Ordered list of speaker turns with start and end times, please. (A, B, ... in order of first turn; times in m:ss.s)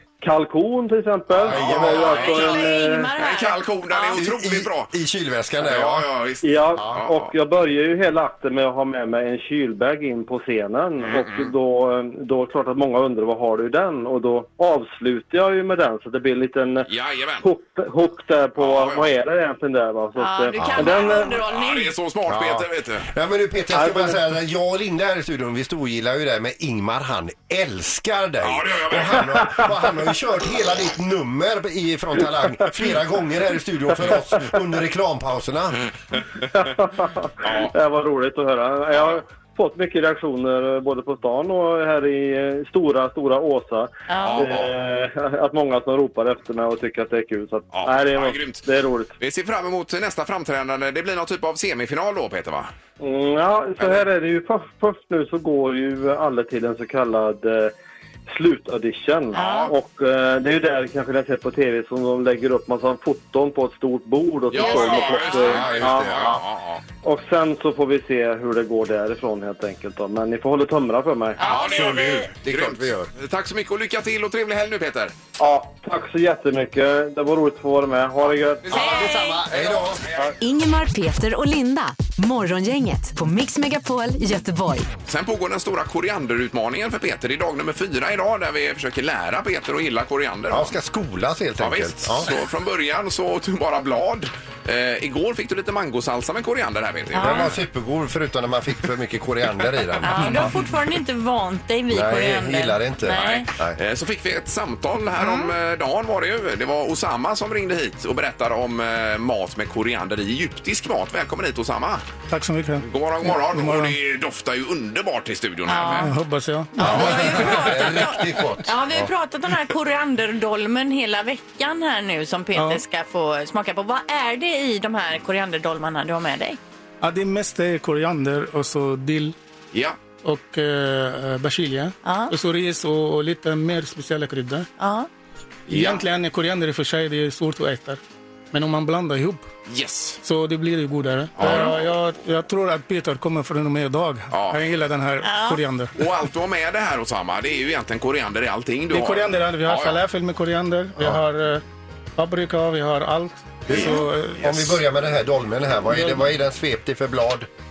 0:00.2-0:03.1 A
0:01.3-0:02.3 B
0:01.5-0:02.6 C
0:01.6-0:04.2 D
0:03.2-0:04.9 C
0:04.2-0:06.1 B
0:05.6-0:07.3 C
0:06.4-0:16.9 A
0:11.0-0:11.5 C
0:16.9-0:17.5 C
0:17.4-0:21.4 A
0:18.6-0:19.1 C
0:20.2-0:21.9 D
0:20.6-0:20.9 B
0:20.9-0:23.1 C
0:22.3-0:35.8 B
0:23.7-0:24.1 A
0:28.4-0:29.6 C
0:36.5-0:49.1 A
0:37.4-0:37.7 C
0:38.9-0:39.2 C
0:44.1-0:44.5 D
0:44.2-0:44.7 C
0:47.7-0:48.6 C
0:49.2-0:52.7 C
0:53.0-0:57.7 A
0:53.8-0:54.1 C
0:58.3-1:06.4 A
0:59.3-0:59.7 C
0:59.3-0:59.7 D
1:04.5-1:06.8 C
1:04.5-1:05.8 D
1:05.8-1:06.4 B
1:07.0-1:11.4 A
1:11.4-1:12.3 D
1:11.4-1:15.2 C
1:11.7-1:13.1 B
1:15.4-1:18.7 A
1:18.6-1:20.3 C
1:18.7-1:20.0 B
1:18.7-1:19.4 D
1:20.4-1:24.9 E
1:25.0-1:30.7 C
1:30.5-1:32.3 B
1:31.6-1:37.5 C
1:37.1-1:37.5 D
1:37.1-1:40.5 B
1:40.0-1:43.5 D
1:41.9-1:43.8 B
1:43.1-1:52.1 C
1:45.2-1:45.5 D
1:52.3-1:54.0 F
1:52.9-1:56.1 C
1:55.7-1:56.1 D
1:56.0-1:56.7 F
1:56.7-2:06.6 D
1:56.8-1:57.7 C
1:56.8-1:59.1 B
2:02.5-2:02.8 F
2:07.0-2:09.3 F
2:10.2-2:14.7 F
2:12.0-2:12.3 D
2:14.8-2:15.1 D
2:15.7-2:18.0 F
2:15.7-2:16.0 C
2:18.5-2:19.5 F
2:19.7-2:20.2 C
2:20.2-2:26.0 F
2:21.4-2:22.0 C
2:24.3-2:24.6 C
2:25.2-2:25.6 D
2:26.0-2:30.0 C
2:28.9-2:31.6 F
2:32.2-2:34.5 F
2:33.7-2:37.5 B
2:33.7-2:34.0 C
2:35.9-2:36.2 F